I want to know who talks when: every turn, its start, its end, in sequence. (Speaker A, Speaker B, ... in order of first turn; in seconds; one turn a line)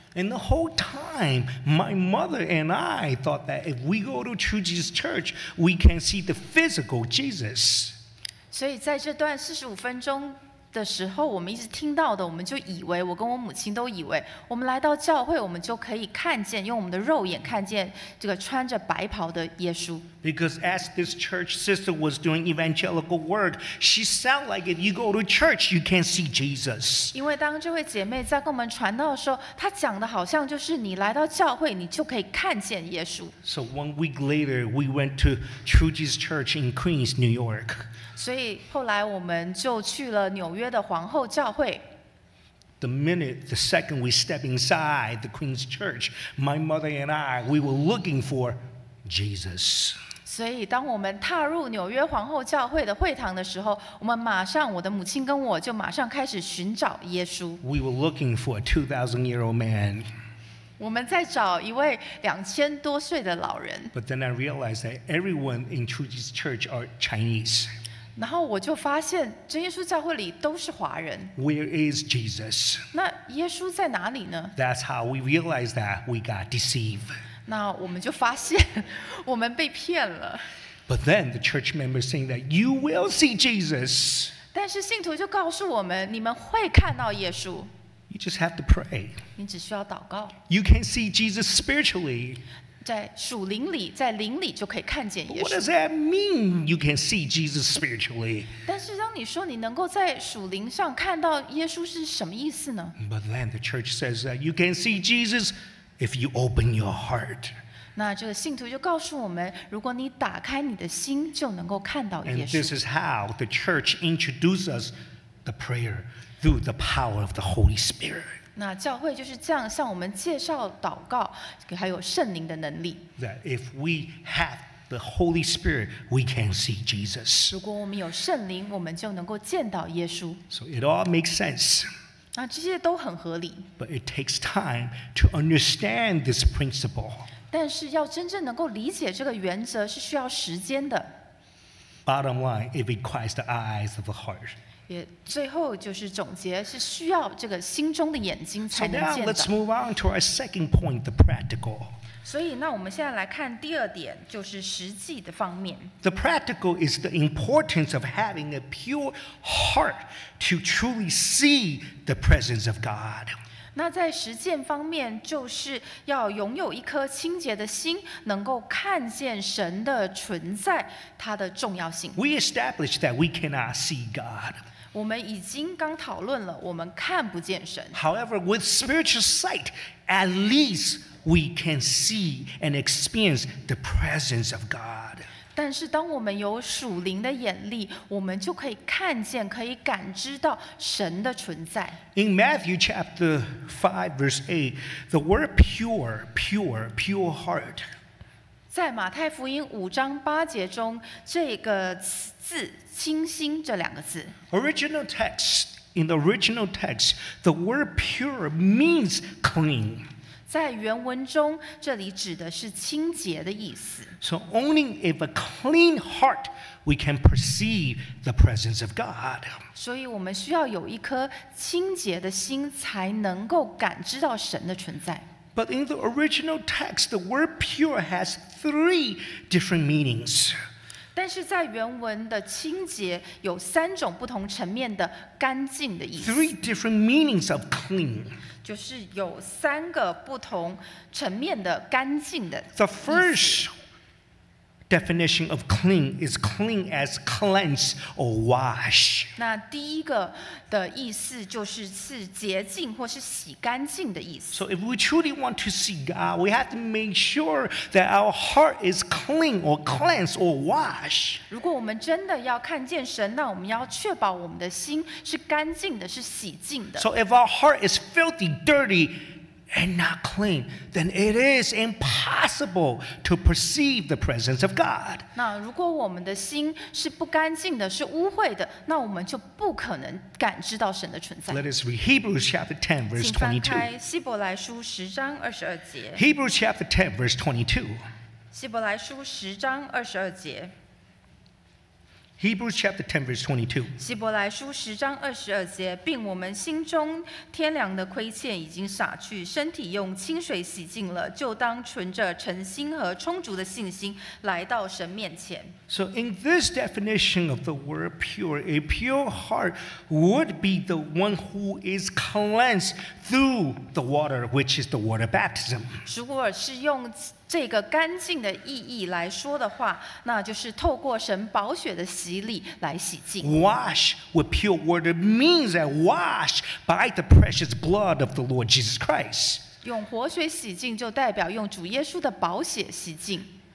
Speaker A: 0.1-8.0
Speaker B: 8.5-20.1
Speaker A: 20.2-27.1
Speaker B: 27.1-33.4
Speaker A: 33.4-37.9
Speaker B: 38.2-41.8
Speaker A: 42.8-50.0
Speaker B: 50.3-57.6
Speaker A: 57.6-60.1
Speaker B: 60.8-63.9
Speaker A: 63.9-67.7
Speaker B: 68.2-71.3
Speaker A: 71.4-72.9
Speaker B: 72.9-74.5
Speaker A: 74.6-77.2
Speaker B: 77.5-80.5
Speaker A: 80.9-84.3
Speaker B: 84.5-87.7
Speaker A: 88.1-89.2
Speaker B: 89.4-90.4
Speaker A: 90.5-92.4
Speaker B: 92.8-95.7
Speaker A: 95.3-98.5
Speaker B: 98.7-103.0
Speaker A: 103.0-107.6
Speaker B: 108.0-112.7
Speaker A: 112.2-114.9
Speaker A: 115.5-118.4
Speaker B: 118.6-123.1
Speaker A: 123.2-127.6
Speaker B: 127.5-130.4
Speaker A: 130.5-131.9
Speaker B: 132.3-133.7
Speaker A: 133.8-137.3
Speaker B: 137.5-141.1
Speaker A: 142.1-144.6
Speaker B: 144.9-149.5
Speaker A: 148.7-151.9
Speaker B: 152.2-155.9
Speaker A: 156.0-163.4
Speaker B: 163.8-172.2
Speaker A: 172.2-174.6
Speaker B: 174.9-178.0
Speaker A: 177.9-185.3
Speaker B: 185.6-192.0
Speaker A: 192.2-197.9
Speaker B: 198.7-204.4
Speaker A: 204.5-210.1
Speaker B: 210.5-214.2
Speaker A: 214.2-219.6
Speaker B: 219.8-225.3
Speaker A: 225.6-230.6
Speaker B: 231.2-236.5
Speaker A: 236.2-238.3
Speaker B: 238.6-243.6
Speaker A: 242.8-243.7
Speaker A: 244.9-249.3
Speaker B: 249.4-254.6
Speaker A: 254.5-261.4
Speaker B: 261.5-267.1
Speaker A: 267.0-275.3
Speaker B: 275.4-281.6
Speaker A: 281.5-283.9
Speaker B: 283.2-286.2
Speaker A: 286.2-288.0
Speaker B: 288.5-290.7
Speaker A: 292.4-293.9
Speaker B: 294.0-305.8
Speaker A: 305.9-316.1
Speaker B: 316.1-323.5
Speaker A: 323.4-329.6
Speaker B: 329.8-333.5